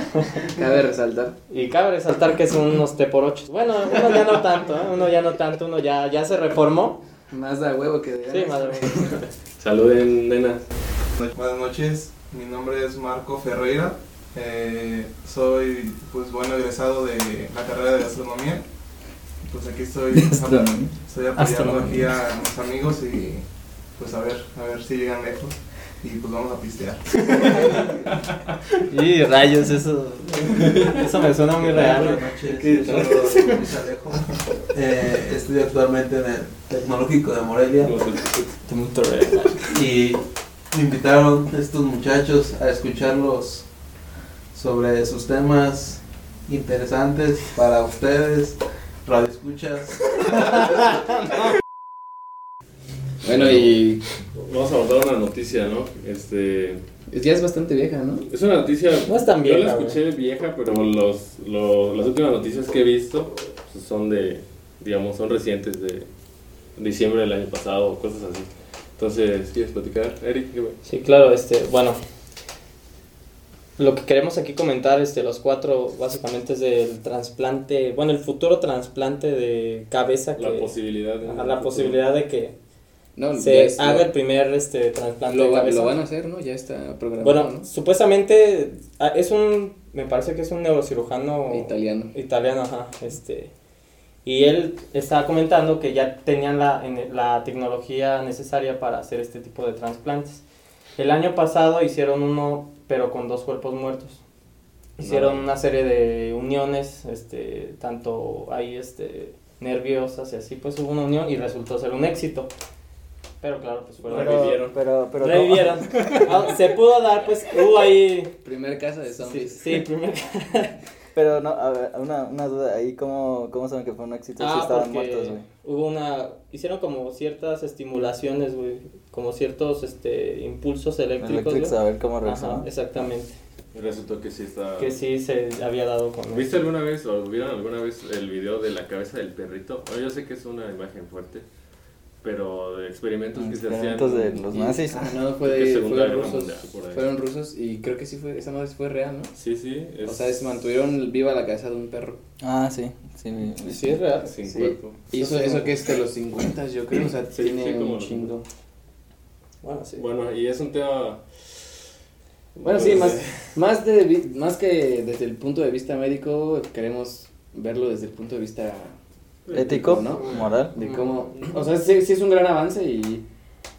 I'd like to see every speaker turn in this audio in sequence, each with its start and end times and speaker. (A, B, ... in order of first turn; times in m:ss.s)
0:00.2-0:00.4 A
0:00.5-0:01.4 B
0:01.5-0:07.0 A
0:07.3-0:09.2 B
0:08.3-0:09.3 A
0:09.6-0:10.7 C
0:11.2-0:18.6 D
0:19.4-0:27.3 D
0:20.1-0:20.9 E
0:21.4-0:21.9 A
0:21.6-0:21.9 E
0:28.9-0:32.2 A
0:31.6-0:38.0 F
0:31.6-0:33.4 C
0:37.8-0:38.6 C
0:38.7-0:39.8 A
0:39.7-0:43.7 F
0:44.5-0:50.8 F
0:53.2-0:54.0 B
0:53.3-0:53.8 C
0:54.4-0:56.8 C
0:57.1-0:58.3 B
0:58.3-1:06.1 C
0:59.1-1:00.0 A
1:06.8-1:10.8 C
1:10.8-1:12.0 A
1:13.8-1:22.6 A
1:20.4-1:22.0 C
1:23.2-1:24.1 B
1:23.4-1:26.0 A
1:25.3-1:27.7 B
1:27.2-1:33.5 A
1:31.5-1:32.1 B
1:34.2-1:40.4 A
1:41.0-1:44.2 A
1:45.0-1:52.5 A
1:45.0-1:45.4 C
1:53.4-1:54.6 A
1:54.1-1:54.8 C
1:54.1-1:56.1 E
1:55.2-1:58.3 A
1:58.4-1:59.8 B
1:59.2-2:00.8 A
2:01.2-2:05.4 E
2:04.4-2:13.4 A
2:11.2-2:12.7 E
2:13.7-2:15.0 C
2:14.8-2:16.6 A
2:16.3-2:21.4 C
2:22.2-2:24.5 C
2:23.4-2:25.2 E
2:24.5-2:29.3 B
2:25.4-2:27.1 C
2:29.4-2:30.4 C
2:30.0-2:32.2 B
2:32.4-2:34.0 E
2:33.6-2:34.3 A
2:34.2-2:35.0 C
2:34.5-2:38.5 B
2:35.1-2:35.9 A
2:37.3-2:38.3 C
2:39.6-2:40.0 A
2:40.0-2:41.8 C
2:42.6-2:43.6 C
2:42.6-2:49.0 B
2:49.5-2:50.5 C
2:49.5-2:50.7 E
2:49.5-2:53.2 B
2:50.8-2:51.1 A